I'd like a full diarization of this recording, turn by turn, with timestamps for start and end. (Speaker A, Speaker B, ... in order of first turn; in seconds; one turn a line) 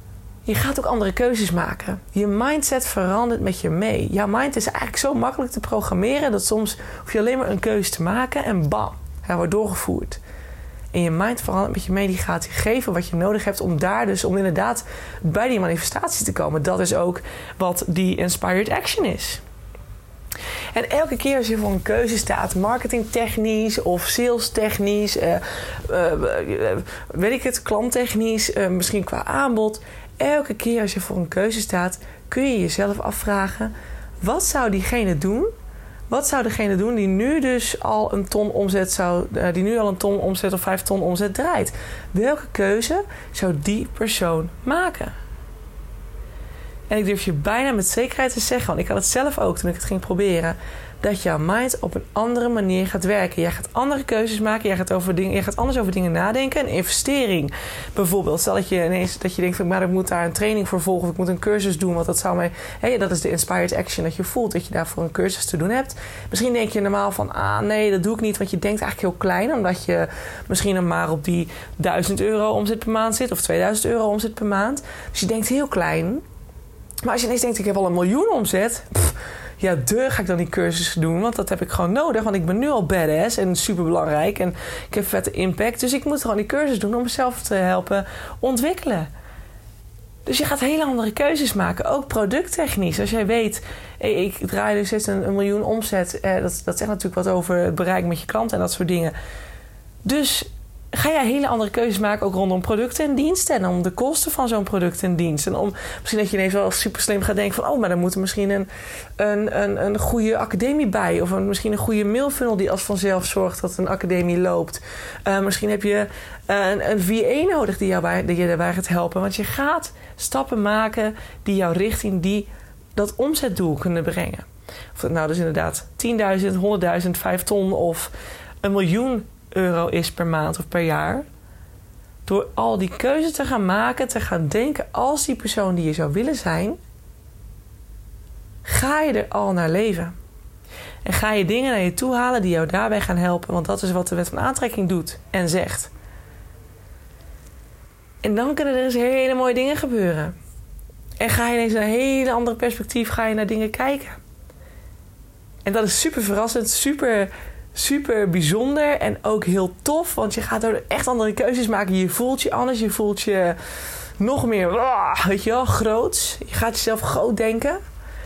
Speaker A: 0.4-10.2
Speaker A: 10.9-19.4
Speaker A: 20.7-35.5
Speaker A: 36.1-45.1
Speaker A: 46.9-76.2
Speaker A: 77.0-89.1
Speaker A: 90.2-99.1
Speaker A: 100.0-131.2
Speaker A: 132.2-136.8
Speaker A: 138.6-140.1
Speaker A: 141.0-145.9
Speaker A: 148.2-150.3
Speaker A: 151.2-154.2
Speaker A: 155.6-163.6
Speaker A: 164.2-167.8